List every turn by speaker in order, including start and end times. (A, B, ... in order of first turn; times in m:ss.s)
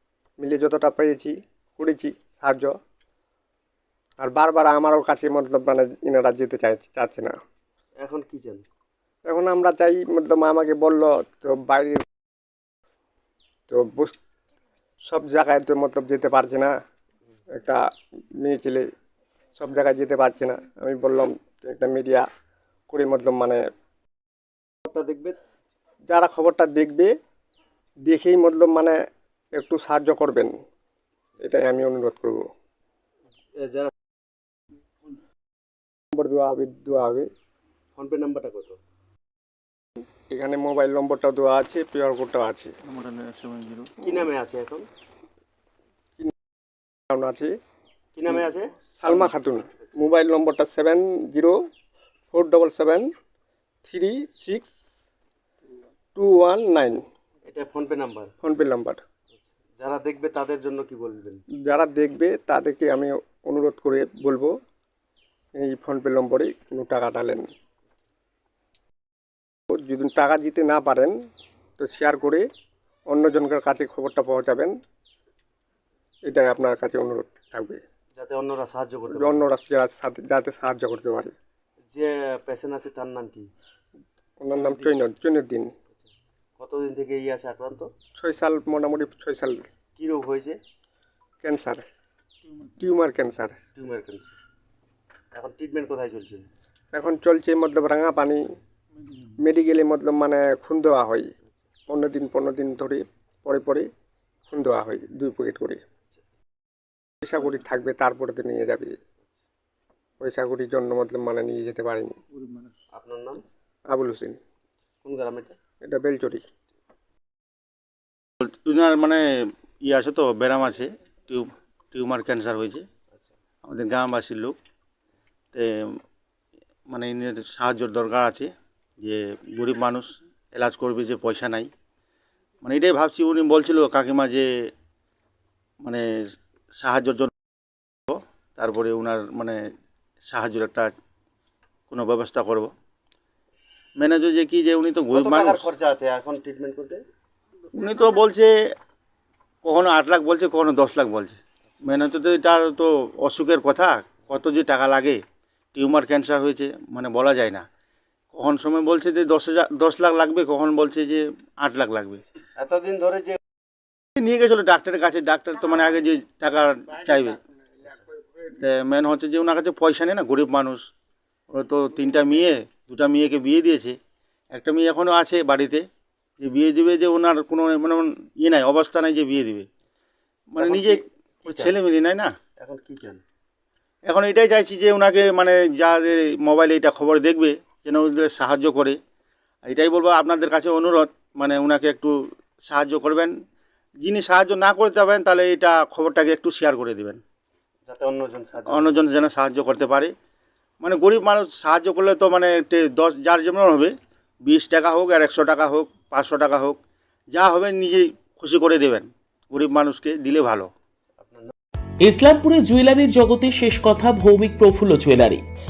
0:00.4-0:02.7 A
0:04.2-0:07.3 A
0:08.0-0:08.6 B
0:09.3-0:12.0 A
0:13.7-0:14.1 A
0:15.0-0:16.7 A
0:17.5-0:17.8 A
0:18.4-0:18.9 A
0:19.6-0:22.2 A
0:22.9-0:23.6 A
0:24.8-0:25.4 B
0:26.1-0:27.1 A
0:28.0-0:29.0 A
0:29.5-0:30.5 A
0:31.4-0:32.4 A
0:33.6-0:33.9 B
0:36.1-0:37.3 A
0:38.0-0:38.8 B
0:40.3-0:42.7 A
0:42.8-0:44.0 C
0:44.0-0:44.9 B
0:47.1-0:47.5 A
0:48.2-0:49.3 B
0:49.0-0:51.6 A
0:52.3-0:53.1 A
0:53.8-0:54.7 A
0:56.2-0:57.0 A
0:57.5-0:58.3 B
0:58.4-0:59.0 A
0:59.8-1:01.4 B
1:01.6-1:04.5 A
1:05.6-1:07.5 A
1:09.7-1:11.2 A
1:11.8-1:12.4 A
1:13.1-1:14.7 A
1:16.2-1:17.8 A
1:18.2-1:19.4 B
1:19.1-1:21.3 A
1:21.9-1:23.5 B
1:24.4-1:25.7 A
1:26.6-1:27.9 B
1:28.2-1:29.6 A
1:30.0-1:30.6 B
1:31.4-1:31.8 A
1:32.8-1:33.6 A
1:33.8-1:34.3 B
1:35.3-1:36.4 B
1:36.9-1:38.4 A
1:39.4-1:41.3 A
1:41.9-1:43.9 A
1:44.5-1:45.8 A
1:47.2-1:49.0 A
1:50.2-1:52.2 A
1:52.9-1:53.4 B
1:53.9-1:54.4 A
1:55.0-1:55.5 B
1:55.8-1:56.4 A
1:58.4-1:59.2 C
1:59.8-2:02.8 C
2:03.6-2:04.5 C
2:06.9-2:08.5 C
2:09.0-2:11.7 C
2:12.6-2:14.5 C
2:16.8-2:17.3 C
2:18.1-2:19.6 C
2:20.2-2:20.9 C
2:21.9-2:22.7 C
2:24.0-2:25.7 C
2:25.1-2:27.0 B
2:27.7-2:28.5 C
2:29.6-2:35.2 C
2:35.7-2:37.6 C
2:38.3-2:42.2 C
2:42.6-2:43.4 B
2:44.2-2:47.4 C
2:48.6-2:50.8 C
2:51.5-2:54.0 C
2:54.5-2:55.8 C
2:56.4-2:59.7 C
3:00.5-3:02.3 C
3:00.6-3:01.8 B
3:02.6-3:03.2 B
3:04.0-3:09.0 C
3:09.6-3:13.3 C
3:14.0-3:17.2 C
3:17.9-3:19.1 B
3:18.7-3:20.1 C
3:20.8-3:23.9 C
3:24.4-3:26.8 C
3:27.3-3:30.7 C
3:31.2-3:31.5 B
3:32.1-3:35.4 D